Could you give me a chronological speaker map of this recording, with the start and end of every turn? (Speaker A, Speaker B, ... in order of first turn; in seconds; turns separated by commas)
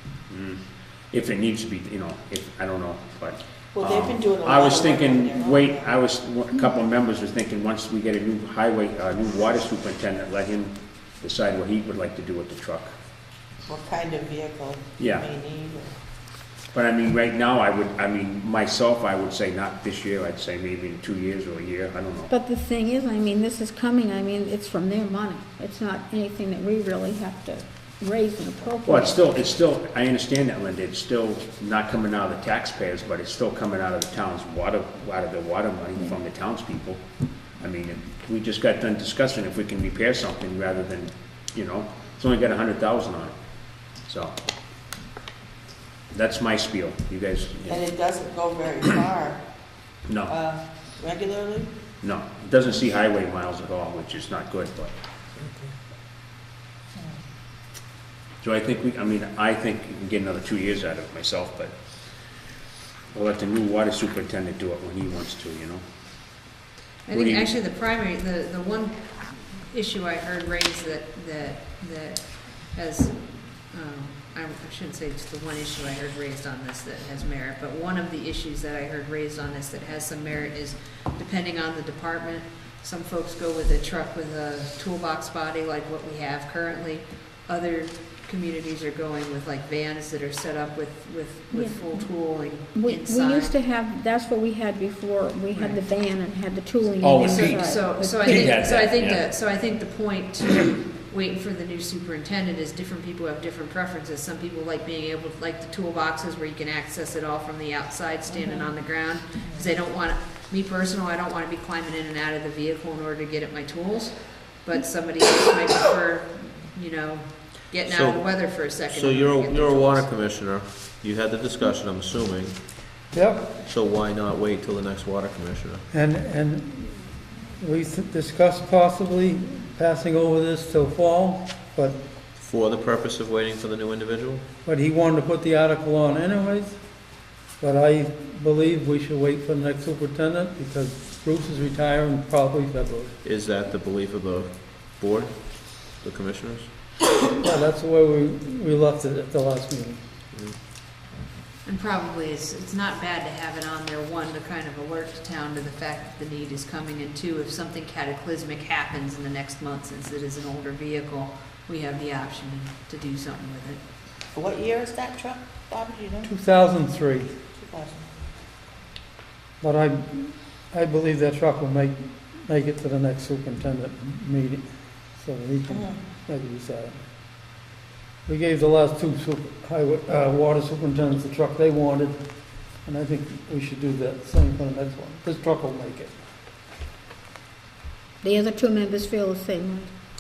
Speaker A: 0.3-13.0, Speaker B: 3.7-5.9, Speaker B: 13.7-15.9, Speaker A: 15.0-15.3, Speaker A: 16.7-22.3, Speaker C: 22.3-29.2, Speaker A: 28.8-37.0, Speaker A: 37.6-44.4, Speaker A: 46.1-47.9, Speaker B: 47.7-49.5, Speaker A: 50.1-50.3, Speaker B: 50.3-51.7, Speaker A: 52.0-54.9, Speaker A: 58.4-61.8, Speaker A: 63.1-65.8, Speaker D: 67.1-93.5, Speaker A: 67.1-67.5, Speaker C: 91.5-92.1, Speaker C: 92.7-98.7, Speaker D: 95.5-95.8, Speaker A: 97.0-99.2, Speaker D: 97.3-120.1, Speaker B: 108.3-108.7, Speaker E: 117.8-123.1, Speaker F: 123.1-123.6, Speaker E: 123.6-125.8, Speaker F: 125.9-132.0, Speaker E: 132.4-134.5, Speaker F: 134.6-143.2, Speaker E: 143.2-146.7, Speaker F: 147.4-150.0, Speaker D: 151.7-163.8, Speaker B: 164.3-166.3, Speaker F: 166.2-167.3, Speaker B: 167.6-168.1, Speaker F: 169.6-177.0, Speaker B: 175.7-176.0, Speaker F: 178.2-186.2, Speaker C: 188.2-189.9